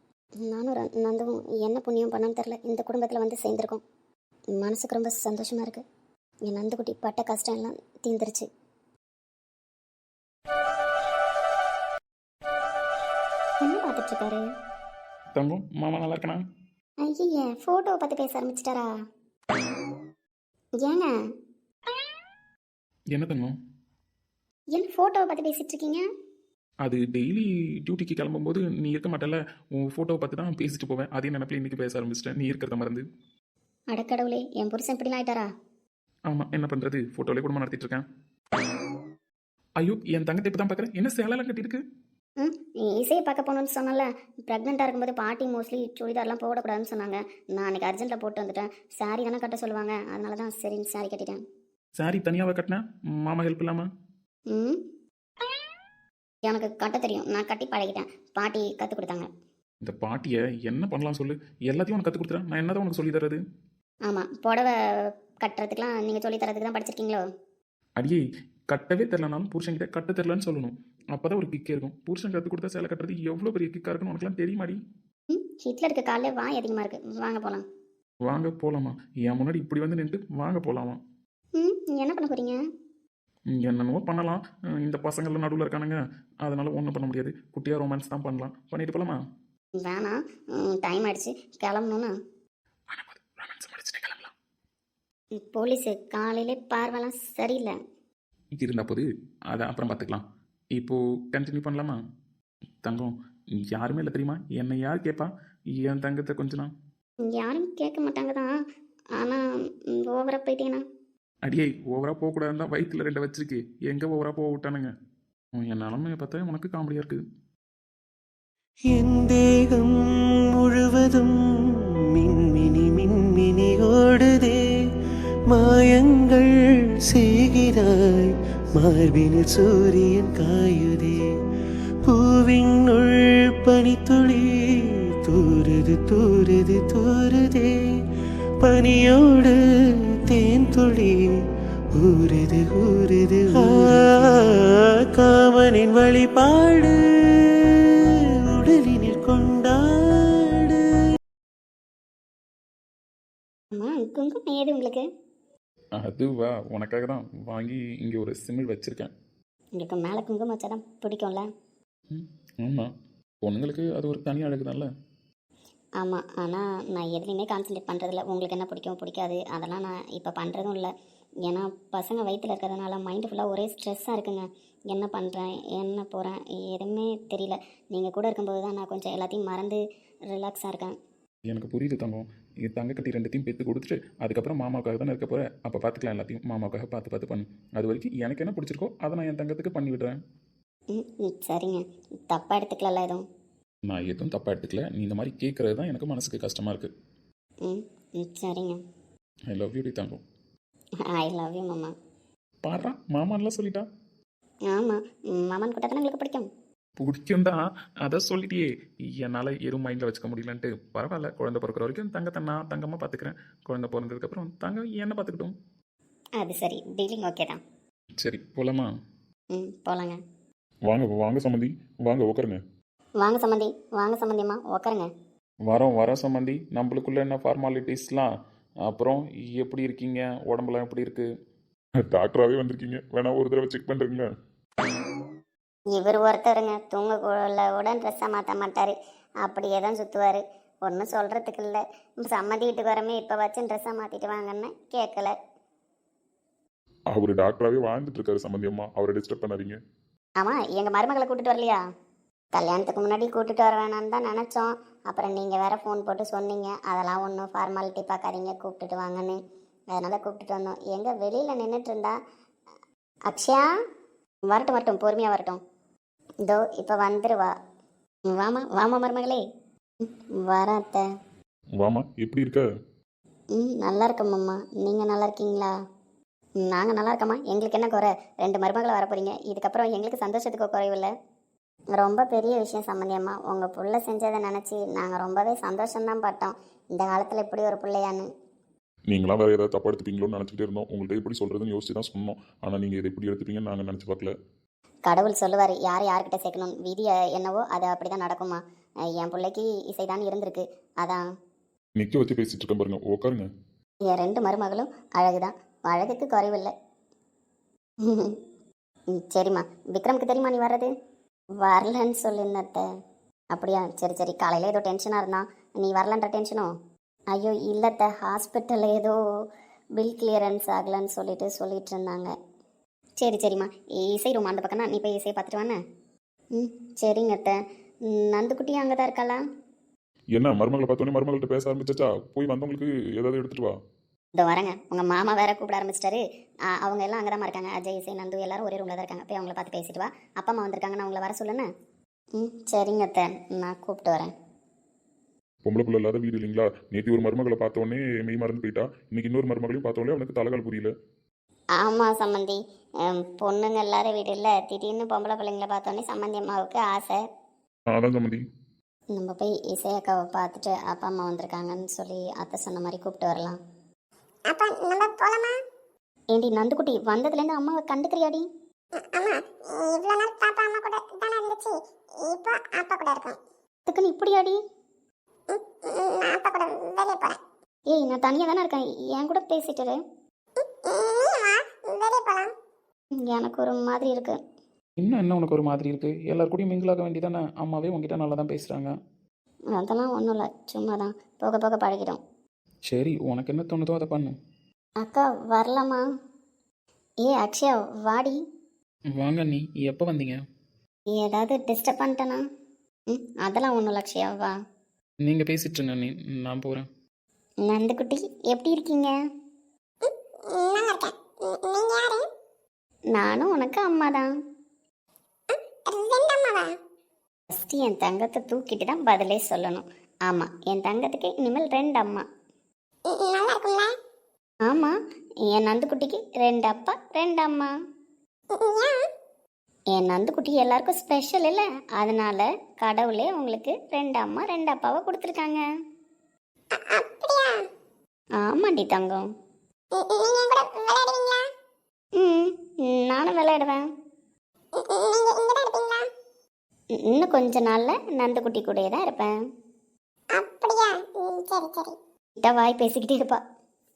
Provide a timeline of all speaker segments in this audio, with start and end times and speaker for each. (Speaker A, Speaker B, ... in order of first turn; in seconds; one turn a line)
Speaker A: 0.4-3.8
Speaker A: 4.6-5.8
Speaker A: 6.5-8.4
Speaker A: 13.6-14.4
Speaker B: 15.3-16.4
Speaker A: 17.0-18.9
Speaker A: 20.8-21.1
Speaker B: 23.1-23.5
Speaker A: 24.7-26.0
Speaker B: 26.8-33.0
Speaker A: 33.9-35.5
Speaker B: 36.3-38.0
Speaker B: 39.8-41.8
Speaker A: 42.4-51.4
Speaker B: 52.0-53.9
Speaker A: 54.5-54.8
Speaker A: 56.4-59.3
Speaker B: 59.8-63.4
Speaker A: 64.1-64.7
Speaker A: 65.4-67.2
Speaker B: 68.0-74.8
Speaker A: 75.3-77.6
Speaker B: 78.2-81.0
Speaker A: 81.6-82.6
Speaker B: 83.5-89.2
Speaker A: 89.8-92.1
Speaker B: 92.9-94.3
Speaker A: 95.4-97.7
Speaker B: 98.5-100.2
Speaker B: 100.8-102.0
Speaker B: 102.8-106.7
Speaker A: 107.2-108.5
Speaker A: 109.2-110.8
Speaker B: 111.4-114.9
Speaker B: 115.5-117.2
Speaker C: 118.9-119.9
Speaker C: 120.5-121.3
Speaker C: 122.2-124.6
Speaker C: 125.5-126.5
Speaker C: 127.1-131.2
Speaker C: 132.1-137.8
Speaker C: 138.6-139.6
Speaker C: 140.3-141.2
Speaker C: 142.0-144.6
Speaker C: 145.1-146.9
Speaker C: 148.6-150.8
Speaker A: 153.7-155.0
Speaker B: 156.0-159.1
Speaker A: 159.8-161.4
Speaker B: 162.1-162.9
Speaker B: 163.4-164.9
Speaker A: 166.0-170.9
Speaker A: 171.4-180.9
Speaker B: 181.5-190.2
Speaker A: 190.9-193.2
Speaker B: 193.9-196.9
Speaker A: 197.6-198.8
Speaker B: 199.5-200.2
Speaker A: 201.1-201.9
Speaker B: 202.6-203.8
Speaker A: 204.7-206.5
Speaker B: 207.0-215.5
Speaker A: 216.4-217.6
Speaker B: 218.2-218.9
Speaker A: 219.5-220.2
Speaker D: 220.9-222.6
Speaker A: 223.2-225.1
Speaker B: 225.7-228.3
Speaker B: 228.9-231.3
Speaker D: 232.0-234.3
Speaker A: 235.9-245.3
Speaker D: 247.1-249.8
Speaker A: 250.4-251.8
Speaker A: 252.5-259.4
Speaker A: 259.9-262.1
Speaker A: 263.3-263.6
Speaker A: 264.5-265.6
Speaker A: 266.4-267.5
Speaker A: 268.3-269.4
Speaker A: 270.0-271.1
Speaker D: 271.8-272.6
Speaker A: 273.6-275.7
Speaker A: 276.6-281.1
Speaker A: 281.9-288.3
Speaker D: 289.1-294.3
Speaker A: 295.1-301.2
Speaker D: 302.0-303.5
Speaker A: 304.1-306.7
Speaker A: 308.0-308.4
Speaker A: 309.1-310.9
Speaker A: 311.6-312.9
Speaker A: 313.5-316.7
Speaker A: 317.3-319.2
Speaker A: 320.0-322.3
Speaker A: 323.2-325.8
Speaker A: 326.6-329.4
Speaker D: 330.3-333.7
Speaker A: 334.4-341.6
Speaker A: 342.4-344.3
Speaker D: 345.6-350.9
Speaker A: 351.8-357.2
Speaker D: 357.9-358.4
Speaker A: 359.1-363.6
Speaker E: 364.5-365.5
Speaker A: 366.3-368.4
Speaker E: 368.9-373.4
Speaker A: 373.9-374.6
Speaker E: 375.5-377.4
Speaker A: 377.9-380.0
Speaker E: 380.6-382.5
Speaker A: 383.2-384.4
Speaker B: 385.0-388.9
Speaker A: 389.8-392.2
Speaker B: 392.9-394.3
Speaker A: 395.0-396.0
Speaker A: 397.2-398.4
Speaker B: 399.1-400.4
Speaker A: 401.1-402.4
Speaker A: 403.1-404.5
Speaker B: 405.2-406.9
Speaker A: 407.6-409.1
Speaker E: 410.0-412.3
Speaker A: 413.1-414.3
Speaker E: 415.5-416.7
Speaker A: 417.5-422.2
Speaker E: 423.1-423.9
Speaker A: 424.7-424.9
Speaker A: 425.5-427.7
Speaker E: 428.5-429.0
Speaker A: 429.9-435.6
Speaker E: 436.7-437.6
Speaker A: 438.4-439.2
Speaker E: 439.9-441.4
Speaker A: 442.2-443.9
Speaker E: 444.7-446.1
Speaker A: 447.0-449.3
Speaker E: 450.3-451.9
Speaker A: 452.4-453.4